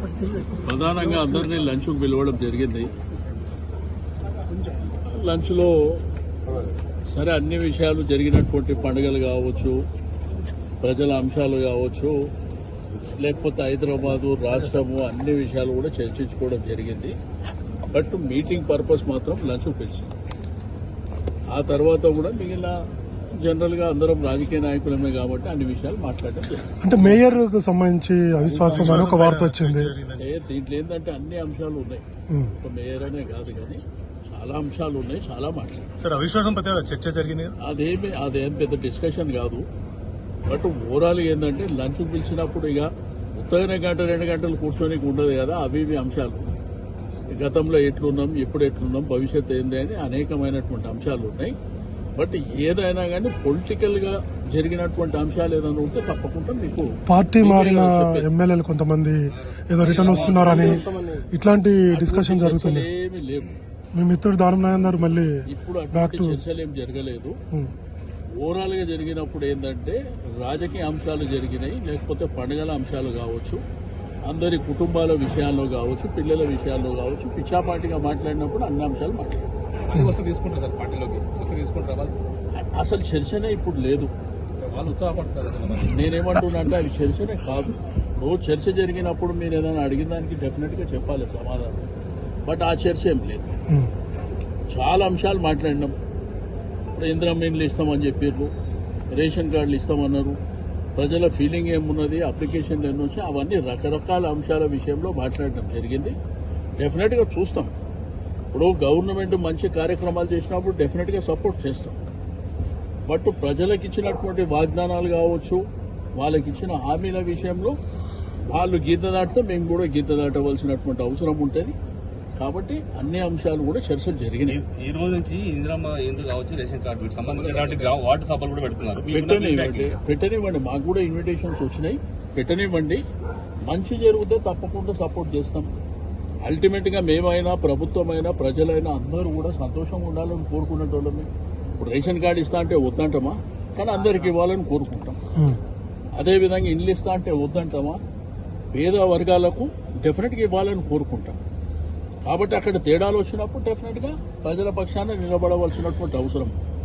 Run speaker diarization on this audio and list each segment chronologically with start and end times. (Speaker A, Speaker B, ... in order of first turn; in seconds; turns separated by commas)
Speaker A: 0.6-2.9, Speaker A: 5.1-6.0, Speaker A: 7.1-9.8, Speaker A: 10.8-12.1, Speaker A: 13.2-17.1, Speaker A: 17.9-20.1, Speaker A: 21.5-22.8, Speaker A: 23.4-27.1, Speaker B: 26.8-29.9, Speaker C: 28.5-30.2, Speaker A: 30.1-32.0, Speaker B: 32.3-32.5, Speaker A: 32.6-35.9, Speaker C: 36.0-37.5, Speaker A: 37.6-39.6, Speaker A: 40.5-46.5, Speaker A: 47.3-51.5, Speaker A: 52.1-58.3, Speaker B: 57.1-62.9, Speaker D: 59.4-61.0, Speaker E: 60.2-60.8, Speaker A: 61.9-63.6, Speaker B: 64.0-65.3, Speaker A: 65.5-67.4, Speaker B: 65.9-66.4, Speaker A: 68.4-73.6, Speaker A: 74.3-79.5, Speaker E: 79.9-82.2, Speaker A: 82.5-84.1, Speaker E: 84.6-86.0, Speaker A: 85.9-91.7, Speaker A: 92.5-93.5, Speaker A: 94.7-95.9, Speaker A: 96.9-98.5, Speaker A: 99.1-100.4, Speaker A: 101.0-106.1, Speaker A: 106.8-107.8, Speaker A: 108.5-112.0, Speaker A: 113.0-115.6, Speaker A: 116.2-117.8, Speaker A: 118.5-121.7, Speaker A: 122.4-124.6, Speaker D: 124.5-130.0, Speaker E: 127.3-127.9, Speaker A: 129.1-133.0, Speaker A: 133.7-135.7, Speaker A: 136.4-145.2, Speaker A: 146.2-148.0, Speaker A: 148.7-151.4, Speaker A: 152.2-156.5